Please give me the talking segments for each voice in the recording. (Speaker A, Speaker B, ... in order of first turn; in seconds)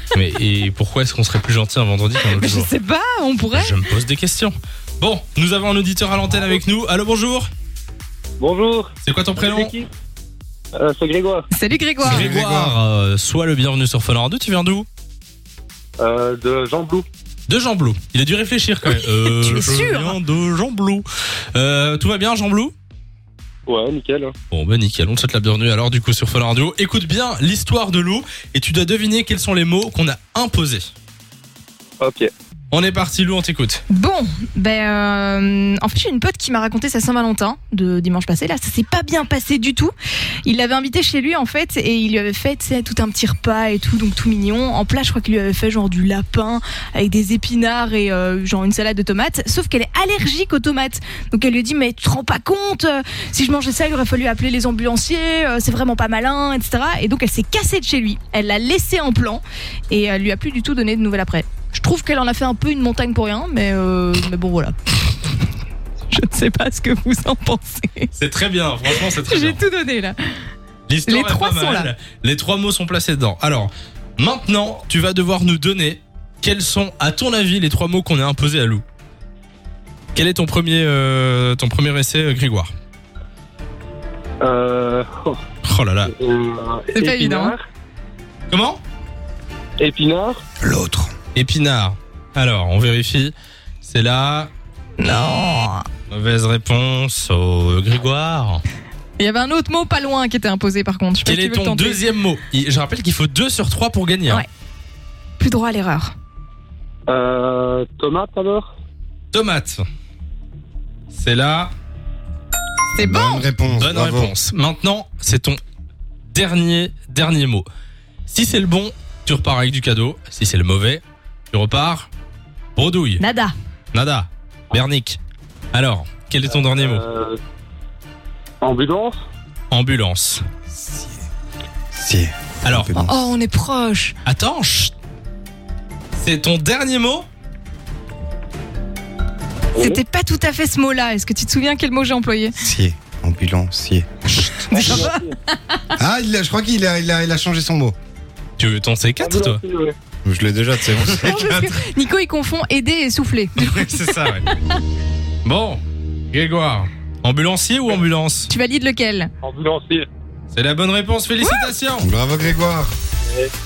Speaker A: 0.1-2.7, 3.5-7.5, 9.0-9.7, 12.0-14.9, 17.5-22.7, 24.5-30.9, 32.7-33.8, 68.2-69.6, 70.9-78.8, 80.1-82.7, 85.6-86.1, 88.5-88.8, 91.3-94.5, 96.1-98.6, 101.2-104.4, 109.3-109.8, 111.1-111.7, 113.7-115.6, 116.3-117.7, 118.3-122.1, 122.8-123.2, 123.9-125.2, 125.7-127.0, 129.7-130.4, 132.6-133.0, 134.2-134.9, 136.1-137.3, 148.6-149.6, 153.6-154.4, 155.4-158.5, 160.5-162.1
Speaker B: 2.2-3.9, 11.5-12.3, 18.9-20.2, 33.9-39.9, 40.4-65.1, 66.1-68.1, 68.9-70.2, 71.1-71.9, 87.0-87.5, 95.0-95.8, 99.2-102.0, 105.4-106.1, 112.9-113.5, 123.2-123.5, 132.9-134.1, 139.8-142.5, 144.4-145.8, 151.1-154.8, 158.5-159.3
Speaker C: 8.4-9.9, 10.7-11.5, 16.0-17.0, 23.7-24.3, 32.0-32.3, 84.4-85.4, 86.1-87.6, 89.8-90.4, 107.1-108.7, 126.5-127.4, 128.6-129.2, 139.8-140.0, 144.7-145.3, 149.2-149.9, 159.4-160.1, 163.2-163.5
Speaker D: 12.0-12.8, 90.6-91.1, 113.0-114.3, 130.7-131.1, 131.9-133.3, 142.5-145.1, 146.0-147.9, 150.2-151.8, 162.0-162.9